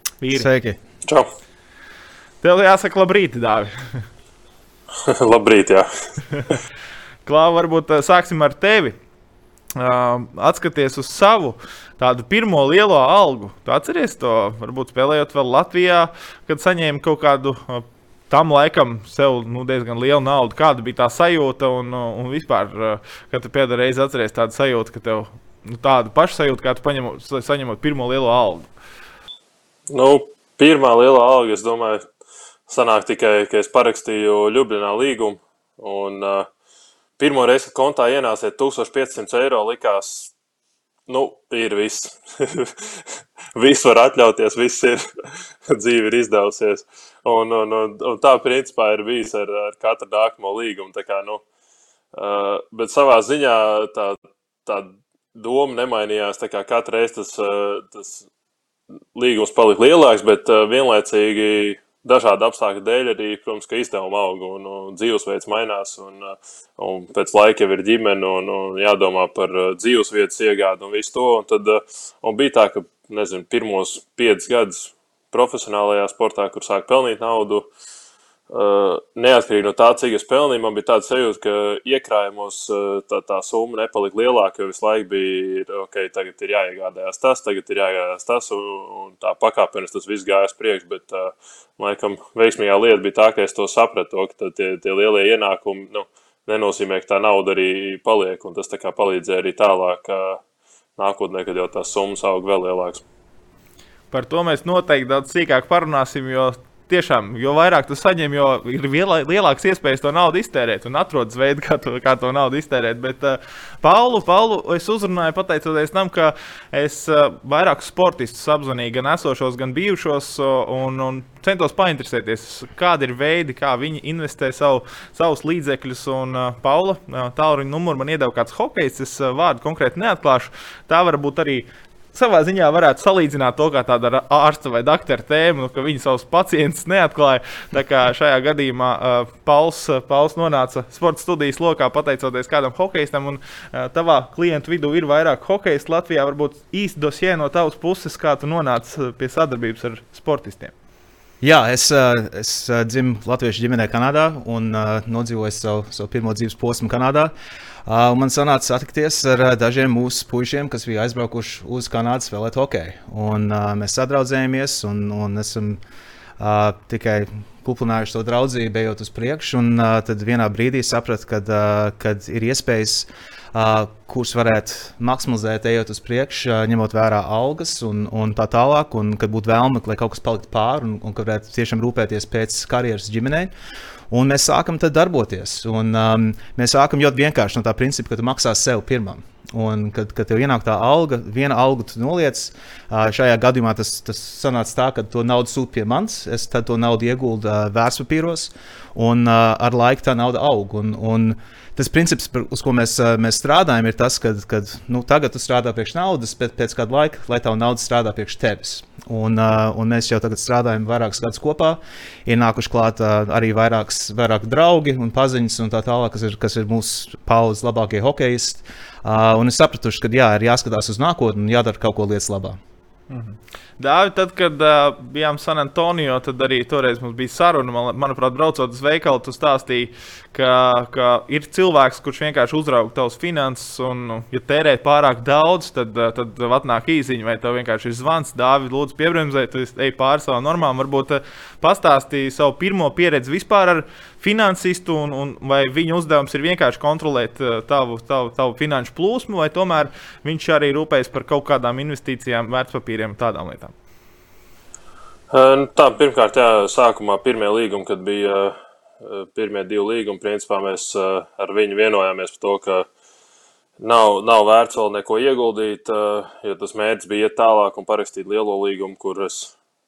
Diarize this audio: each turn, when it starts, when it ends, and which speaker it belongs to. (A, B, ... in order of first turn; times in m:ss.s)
0:00.2-0:00.5 A
0:00.3-0:00.8 B
0:02.4-0:04.0 A
0:05.0-0:06.5 C
0:07.3-0:09.0 A
0:09.8-0:28.7 A
0:29.9-0:32.0 C
0:32.7-0:36.5 C
0:37.2-0:40.3 C
0:41.1-0:51.4 C
0:52.1-0:58.2 C
0:59.2-1:17.7 C
1:18.5-1:40.4 C
1:41.0-1:43.0 C
1:44.1-2:30.7 A
2:31.4-2:37.3 B
2:37.9-2:45.8 B
2:46.4-3:03.5 B
3:04.1-3:42.6 B
3:43.1-4:13.7 A
4:15.3-4:22.9 C
4:23.8-4:29.5 C